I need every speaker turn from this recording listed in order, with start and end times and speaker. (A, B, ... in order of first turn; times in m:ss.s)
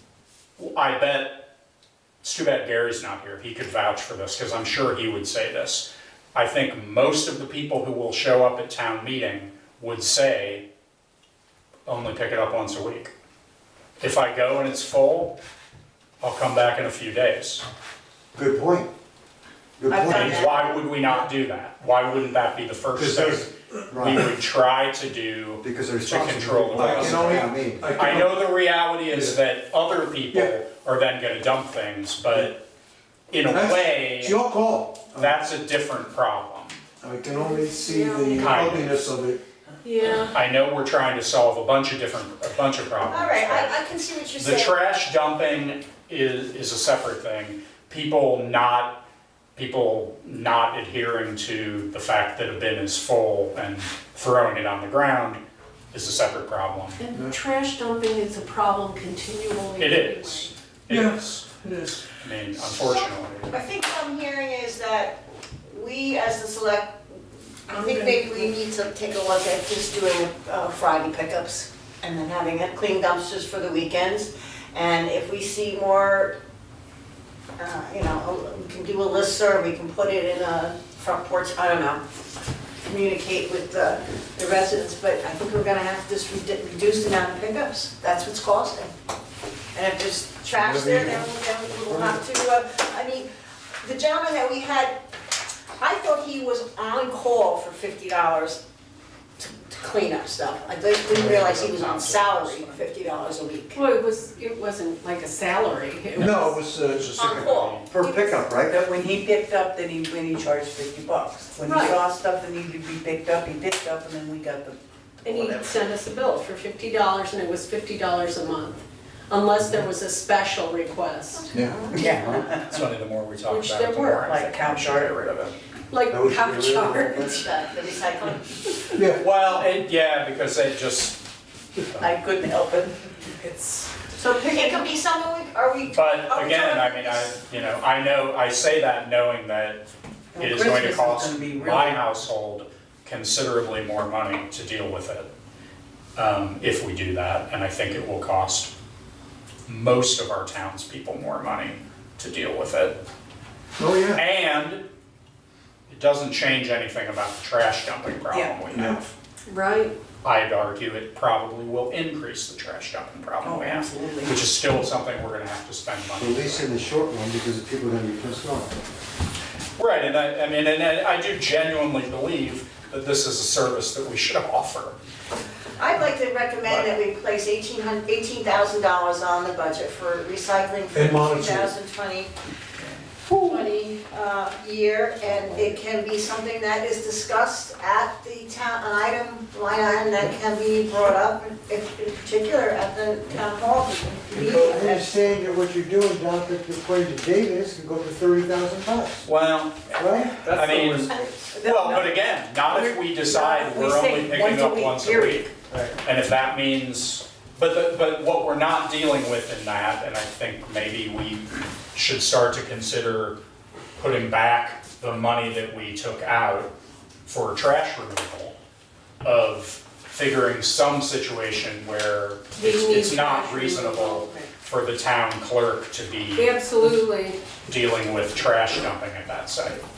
0:00.6-0:01.5 A
0:02.2-0:10.7 A
0:11.9-0:13.1 A
0:14.0-0:15.4 A
0:16.2-0:17.6 A
0:18.4-0:18.9 B
0:19.8-0:20.5 B
0:20.0-0:20.7 C
0:20.0-0:20.4 D
0:20.1-0:32.6 A
0:22.9-0:24.3 B
0:25.6-0:27.9 B
0:26.8-0:28.4 E
0:29.1-0:29.4 E
0:33.3-0:34.4 A
0:33.5-0:35.3 E
0:35.2-0:36.8 A
0:37.0-0:39.4 E
0:37.3-0:38.6 F
0:38.4-0:38.9 A
0:39.8-0:40.4 F
0:40.1-0:43.8 A
0:43.0-0:44.8 C
0:44.4-0:49.0 A
0:49.6-0:55.4 A
0:55.9-0:57.0 A
0:57.0-1:00.5 F
0:59.8-1:01.5 A
1:00.9-1:02.0 E
1:02.0-1:03.7 A
1:02.7-1:07.1 C
1:07.7-1:16.4 C
1:17.6-1:22.0 C
1:22.8-1:28.9 C
1:29.7-1:33.3 C
1:30.6-1:32.2 B
1:33.8-1:35.0 C
1:35.8-1:38.6 C
1:39.4-1:43.8 C
1:41.1-1:42.9 A
1:43.7-1:46.6 F
1:46.2-1:47.1 E
1:46.9-1:47.9 A
1:47.2-1:48.8 B
1:47.2-1:47.8 C
1:48.0-1:48.4 F
1:48.7-1:55.8 D
1:51.6-1:52.0 F
1:55.2-2:01.6 F
2:01.5-2:02.1 C
2:01.9-2:02.8 D
2:02.3-2:05.5 A
2:03.5-2:04.2 F
2:04.0-2:05.5 D
2:05.9-2:07.5 F
2:06.1-2:07.4 B
2:07.2-2:08.5 C
2:09.0-2:09.2 E
2:09.0-2:11.2 A
2:11.8-2:12.2 A
2:12.0-2:14.9 D
2:14.3-2:17.3 C
2:15.9-2:19.8 A
2:20.3-2:22.0 D
2:20.4-2:25.3 A
2:26.2-2:28.7 A
2:29.7-2:33.0 A
2:33.8-2:34.2 E
2:34.1-2:34.8 A
2:35.9-2:39.1 A
2:38.7-2:39.0 E
2:39.5-2:39.9 F
2:40.2-2:46.7 A
2:43.4-2:44.4 D
2:46.1-2:48.8 B
2:49.8-2:55.0 A
2:55.8-3:02.3 C
3:00.9-3:01.7 E
3:03.4-3:15.1 C
3:03.4-3:03.9 F
3:05.4-3:05.8 B
3:14.3-3:14.8 E
3:14.4-3:19.3 B
3:19.2-3:25.5 A
3:19.9-3:20.4 B
3:20.4-3:21.4 E
3:21.5-3:25.5 D
3:25.7-3:26.0 B
3:26.0-3:33.4 A
3:34.0-3:36.7 A
3:37.3-3:38.6 A
3:39.2-3:46.6 A
3:42.6-3:44.5 F
3:46.4-3:47.4 F
3:47.7-3:49.8 A